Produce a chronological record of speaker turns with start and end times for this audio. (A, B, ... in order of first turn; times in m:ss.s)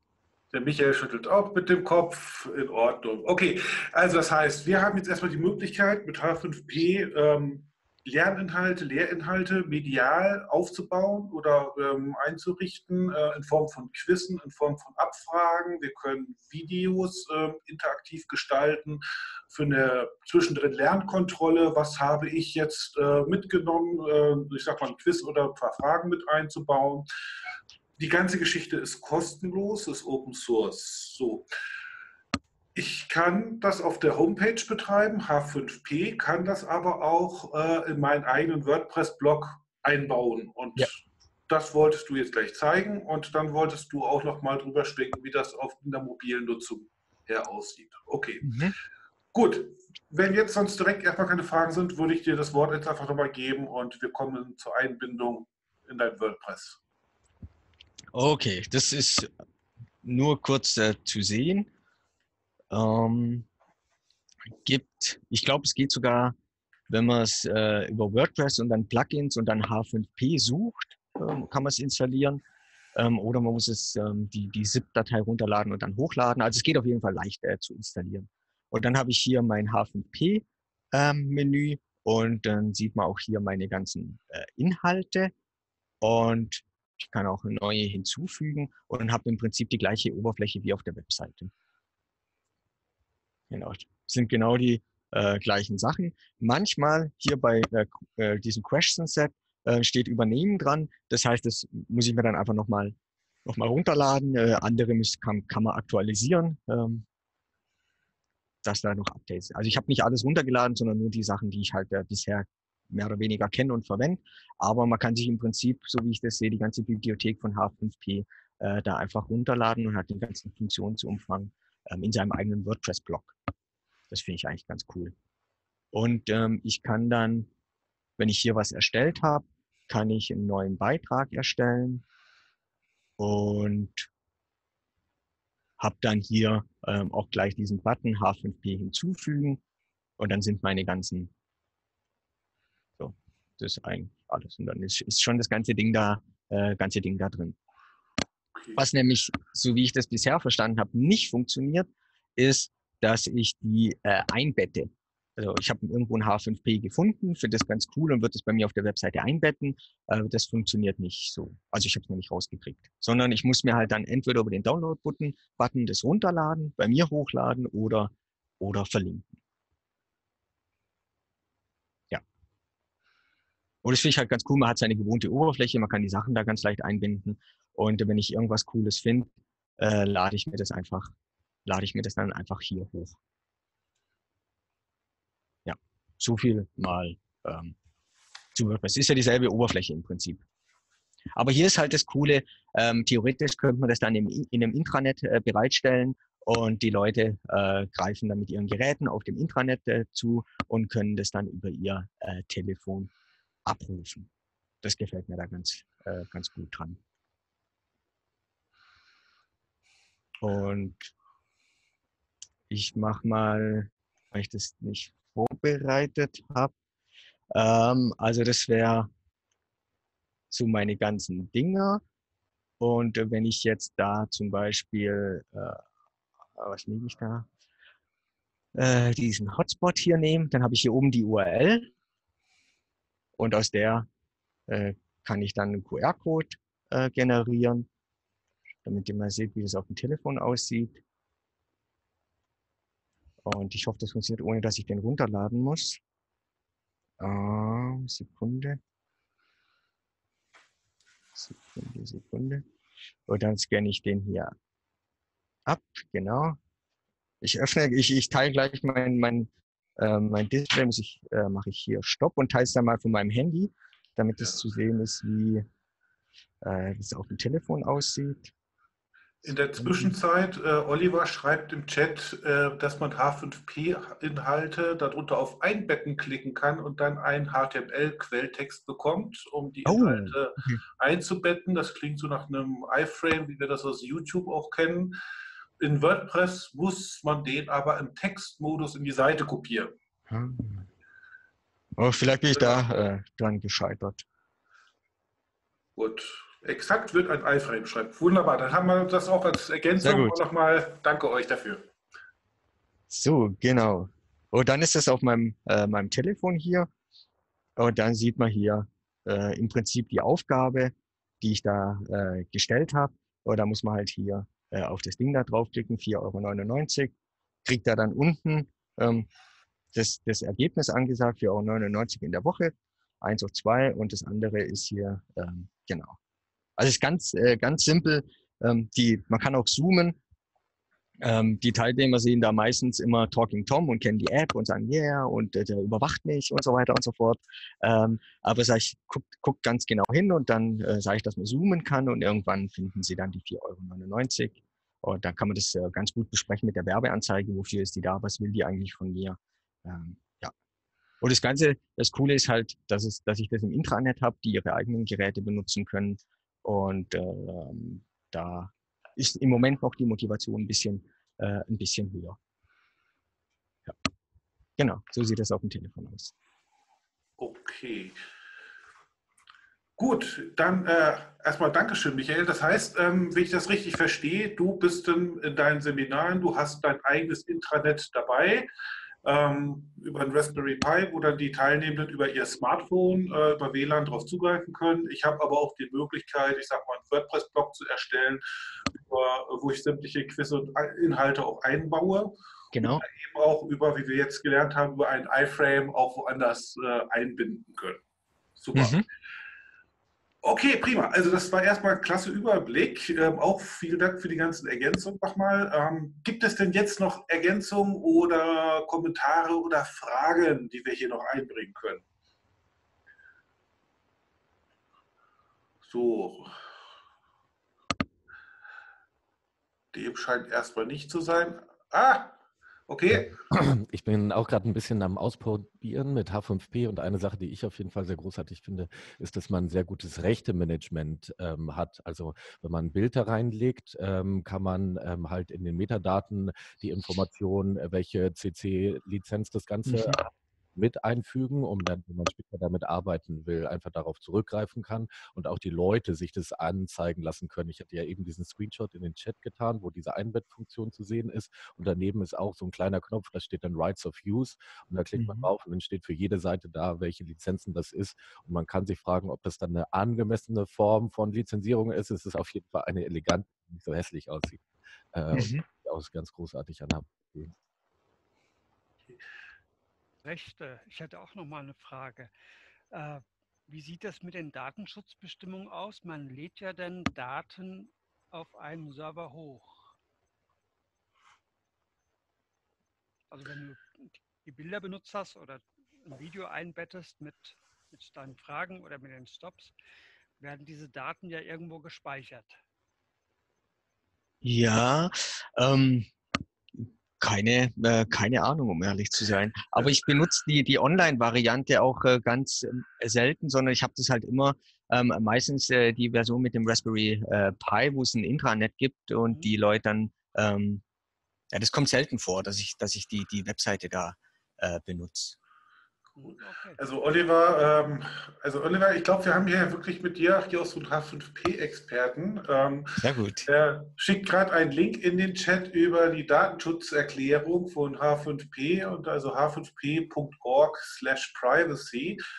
0:00.5-0:27.1 A
0:28.0-0:31.5 A
0:32.8-0:48.5 A
0:48.4-0:48.8 B
0:49.3-0:56.8 A
0:58.1-0:59.3 B
1:00.0-1:01.7 B
1:02.7-1:03.5 B
1:04.6-1:06.4 B
1:06.9-1:12.4 B
1:13.0-1:25.3 B
1:26.0-1:31.5 B
1:33.5-1:43.0 B
1:43.5-1:47.0 B
1:48.6-2:03.4 B
2:04.1-2:05.1 B
2:05.9-2:07.5 B
2:08.2-2:12.0 B
2:13.2-2:14.1 B
2:15.8-2:19.6 B
2:20.2-2:21.3 B
2:23.0-2:27.6 B
2:28.8-2:49.3 B
2:53.8-3:01.1 B
3:01.7-3:03.2 B
3:05.7-3:07.8 B
3:08.6-3:10.4 B
3:11.4-3:23.1 B
3:23.7-3:24.3 B
3:24.8-3:27.0 B
3:30.4-3:31.1 B
3:32.7-3:36.7 B
3:37.5-3:39.1 B
3:40.5-3:42.0 B
3:42.8-3:45.8 B
3:46.6-3:47.5 B
3:48.8-3:51.9 B
3:53.4-3:54.1 B
3:54.7-3:57.9 B
3:58.8-4:01.0 B
4:03.4-4:06.0 B
4:07.2-4:08.8 B
4:11.4-4:12.6 B
4:13.3-4:14.5 B
4:15.7-4:16.6 B
4:17.4-4:25.6 B
4:26.6-4:28.5 B
4:29.4-4:45.2 A
4:29.8-4:30.1 B
4:39.9-4:40.8 B
4:45.8-4:50.0 A
4:50.3-4:50.9 B
4:52.0-4:54.2 B
4:56.0-5:01.9 A
5:00.0-5:00.4 B
5:03.1-5:06.9 B
5:07.8-5:17.1 B
5:17.6-5:19.3 B
5:19.9-5:26.2 B
5:26.8-5:30.2 B
5:31.2-5:50.5 B
5:51.2-6:02.4 B
6:04.8-6:06.3 B
6:07.4-6:08.2 A
6:10.0-6:18.7 A
6:19.2-6:38.0 A
6:32.7-6:33.0 B
6:38.6-6:39.0 A
6:38.7-6:39.1 B
6:40.4-6:52.0 A
6:55.8-6:56.5 A
6:59.9-7:02.4 A
7:02.9-7:03.3 A
7:03.5-7:47.5 C
7:19.9-7:20.2 B
7:35.2-7:35.5 B
7:45.3-7:45.6 B
7:50.2-7:52.3 D
7:52.9-7:59.9 D
8:03.3-8:09.7 D
8:10.4-8:12.6 D
8:14.4-8:16.1 B
8:16.8-8:30.8 B
8:31.5-8:35.4 B
8:36.2-8:36.8 D
8:36.8-8:52.2 A
8:43.0-8:43.5 B